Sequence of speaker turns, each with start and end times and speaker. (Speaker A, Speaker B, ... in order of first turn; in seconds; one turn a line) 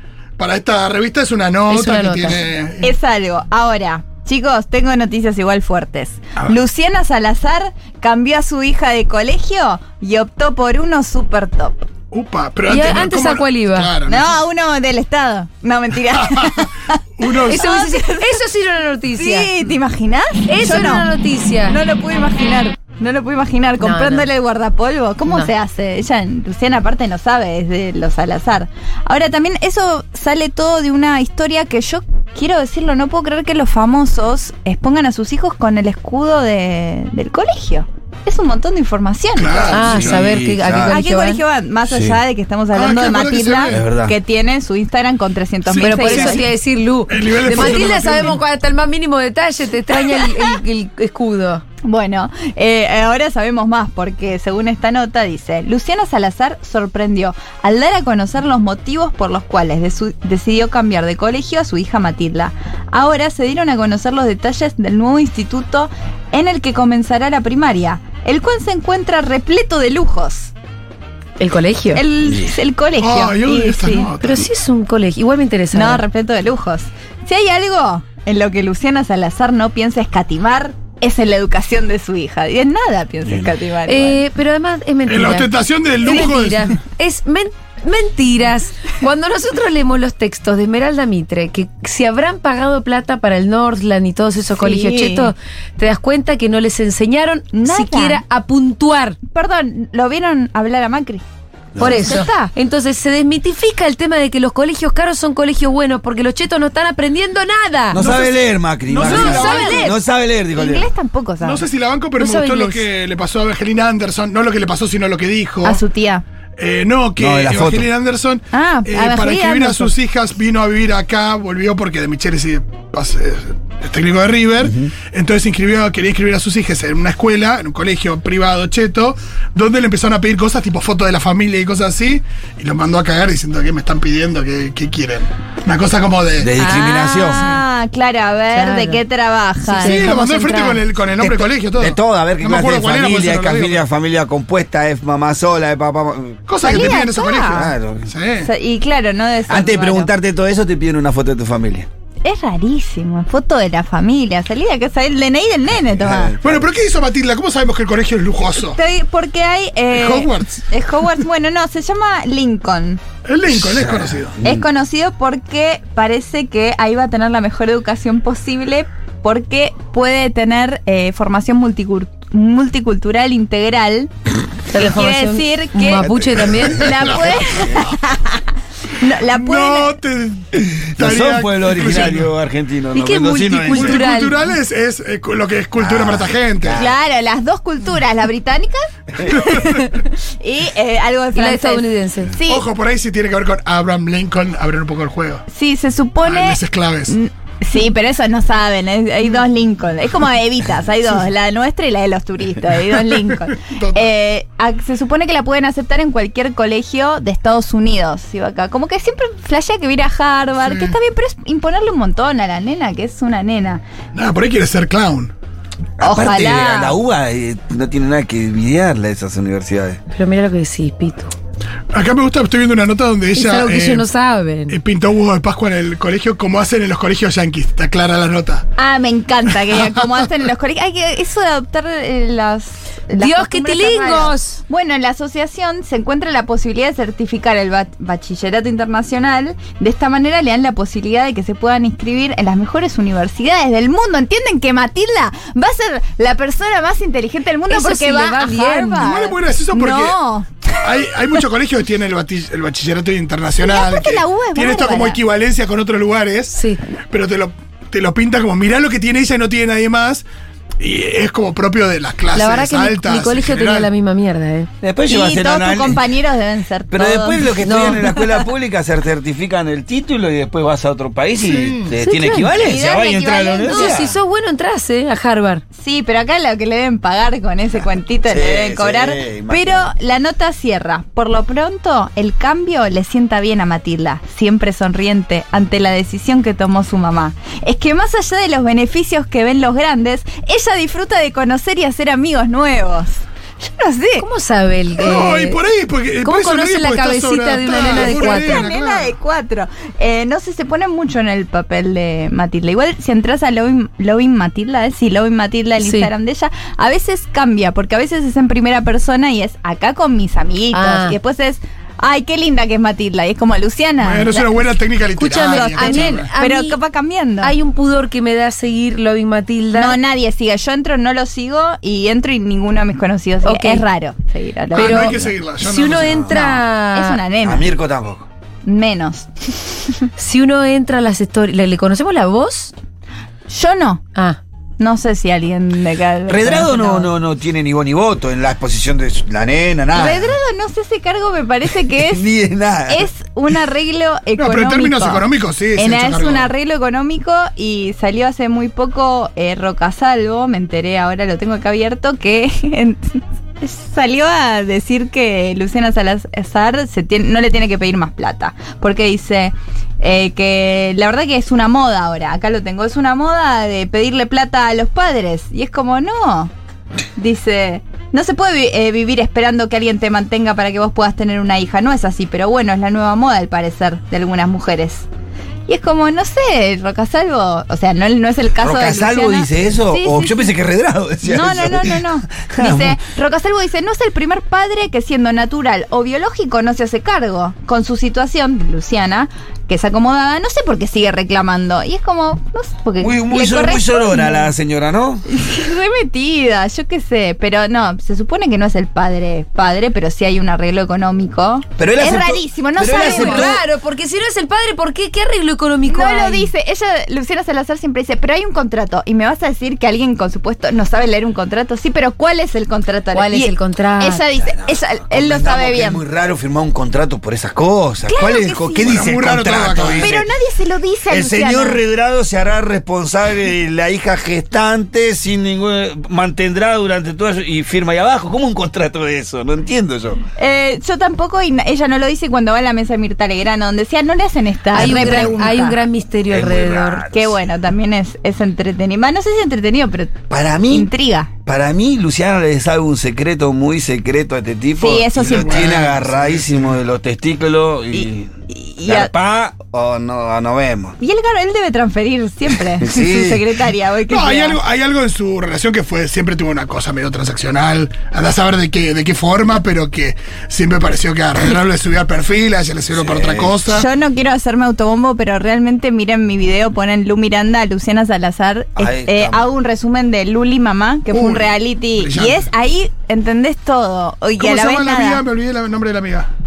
Speaker A: 0.4-2.9
Speaker B: 1.7-2.4
Speaker C: 2.8-11.9
Speaker A: 12.1-14.3
Speaker B: 12.7-13.9
Speaker C: 14.1-18.4
Speaker A: 17.2-17.6
Speaker B: 17.4-19.5
Speaker C: 19.1-21.1
Speaker B: 20.5-21.8
Speaker C: 21.6-40.0
Speaker B: 23.8-24.3
Speaker A: 39.4-40.3
Speaker B: 39.7-41.4
Speaker D: 39.8-41.0
Speaker C: 40.8-46.5
Speaker D: 41.9-42.2
Speaker A: 42.7-43.8
Speaker D: 43.7-44.1
Speaker A: 45.6-46.5
Speaker B: 45.8-51.6
Speaker A: 47.1-48.4
Speaker C: 47.5-48.1
Speaker C: 50.0-50.5
Speaker C: 51.8-70.5
Speaker B: 71.4-72.0
Speaker C: 71.9-74.1
Speaker D: 72.2-72.6
Speaker A: 73.0-74.5
Speaker B: 74.2-76.0
Speaker C: 75.7-84.2
Speaker B: 83.9-99.2
Speaker A: 85.1-86.8
Speaker C: 94.5-95.3
Speaker C: 97.5-98.2
Speaker C: 99.3-101.2
Speaker D: 101.7-102.1
Speaker B: 101.8-108.0
Speaker C: 101.8-102.5
Speaker D: 107.9-110.9
Speaker A: 107.9-109.9
Speaker B: 109.0-109.9
Speaker C: 109.0-109.9
Speaker C: 110.5-111.6
Speaker A: 111.4-115.8
Speaker B: 112.2-112.9
Speaker C: 115.6-116.2
Speaker A: 116.6-136.6
Speaker D: 117.2-117.9
Speaker C: 118.5-119.9
Speaker D: 124.6-124.9
Speaker D: 136.4-137.5
Speaker C: 136.6-140.3
Speaker B: 138.5-139.0
Speaker B: 139.7-140.8
Speaker A: 139.8-143.8
Speaker D: 141.2-148.1
Speaker A: 146.5-148.5
Speaker C: 146.6-147.7
Speaker C: 148.4-150.1
Speaker D: 149.5-151.9
Speaker C: 152.2-156.3
Speaker D: 156.0-156.5
Speaker A: 156.4-158.8
Speaker C: 158.6-163.0
Speaker A: 159.9-160.6
Speaker A: 163.2-164.3
Speaker D: 163.5-164.6
Speaker C: 164.4-174.1
Speaker B: 174.7-177.1
Speaker C: 174.7-178.4
Speaker A: 176.1-177.9
Speaker C: 178.9-179.9
Speaker A: 179.3-182.3
Speaker D: 180.6-184.0
Speaker B: 182.9-184.5
Speaker A: 183.6-186.8
Speaker D: 185.8-186.9
Speaker C: 186.7-192.7
Speaker B: 191.3-192.3
Speaker A: 192.5-195.4
Speaker C: 195.5-213.8
Speaker A: 196.2-197.2
Speaker A: 203.6-204.0
Speaker A: 210.6-210.9
Speaker A: 214.1-215.3
Speaker D: 216.0-220.0
Speaker C: 216.0-217.0
Speaker B: 220.1-221.3
Speaker A: 221.9-224.1
Speaker B: 223.3-224.8
Speaker A: 224.7-228.6
Speaker C: 228.8-251.0
Speaker B: 233.2-234.6
Speaker B: 247.7-249.1
Speaker A: 249.0-250.2
Speaker A: 250.8-256.6
Speaker C: 253.6-255.2
Speaker B: 256.5-256.8
Speaker A: 257.1-260.2
Speaker A: 260.8-263.9
Speaker B: 262.3-264.7
Speaker D: 264.8-266.1
Speaker C: 265.1-268.4
Speaker D: 266.9-274.1
Speaker B: 267.6-268.0
Speaker A: 271.4-271.9
Speaker B: 272.0-272.5
Speaker C: 272.5-274.1
Speaker B: 273.6-275.6
Speaker C: 275.7-294.2
Speaker D: 278.3-279.9
Speaker B: 294.2-295.6
Speaker A: 295.0-299.1
Speaker B: 296.2-298.7
Speaker C: 297.8-314.8
Speaker B: 305.8-306.1
Speaker B: 310.7-311.1
Speaker A: 314.0-316.3
Speaker B: 315.1-316.8
Speaker C: 315.5-317.5
Speaker B: 317.4-320.0
Speaker C: 319.7-325.1
Speaker B: 323.4-323.8
Speaker A: 324.7-326.4
Speaker B: 324.8-327.2
Speaker C: 326.2-327.7
Speaker D: 327.4-328.3
Speaker C: 328.6-329.7
Speaker B: 330.2-332.7
Speaker C: 333.5-334.0
Speaker C: 334.8-337.1
Speaker D: 336.3-340.3
Speaker C: 339.9-342.3
Speaker D: 341.9-343.1
Speaker C: 342.9-366.5
Speaker A: 344.4-346.5
Speaker C: 367.1-375.1
Speaker C: 375.7-380.5
Speaker D: 378.6-383.0
Speaker C: 381.2-394.5
Speaker D: 393.0-395.2
Speaker C: 395.2-403.6
Speaker D: 401.8-403.6
Speaker B: 402.9-406.5
Speaker C: 405.8-416.0
Speaker B: 413.1-414.2
Speaker D: 414.4-420.3
Speaker C: 418.1-419.0
Speaker A: 418.8-420.1
Speaker C: 419.9-421.8
Speaker D: 421.1-430.2
Speaker C: 430.4-435.8
Speaker B: 434.7-437.1
Speaker D: 434.8-435.3
Speaker D: 436.3-437.4
Speaker C: 437.1-441.3
Speaker D: 440.3-440.9
Speaker D: 441.4-448.3
Speaker C: 444.8-445.7
Speaker A: 445.2-446.5
Speaker C: 447.9-449.1
Speaker D: 448.8-451.0
Speaker C: 451.0-454.6
Speaker D: 452.8-453.4
Speaker A: 454.1-463.9
Speaker D: 462.9-463.6
Speaker C: 463.6-475.2
Speaker D: 468.8-469.4
Speaker A: 471.1-472.4
Speaker A: 474.4-476.3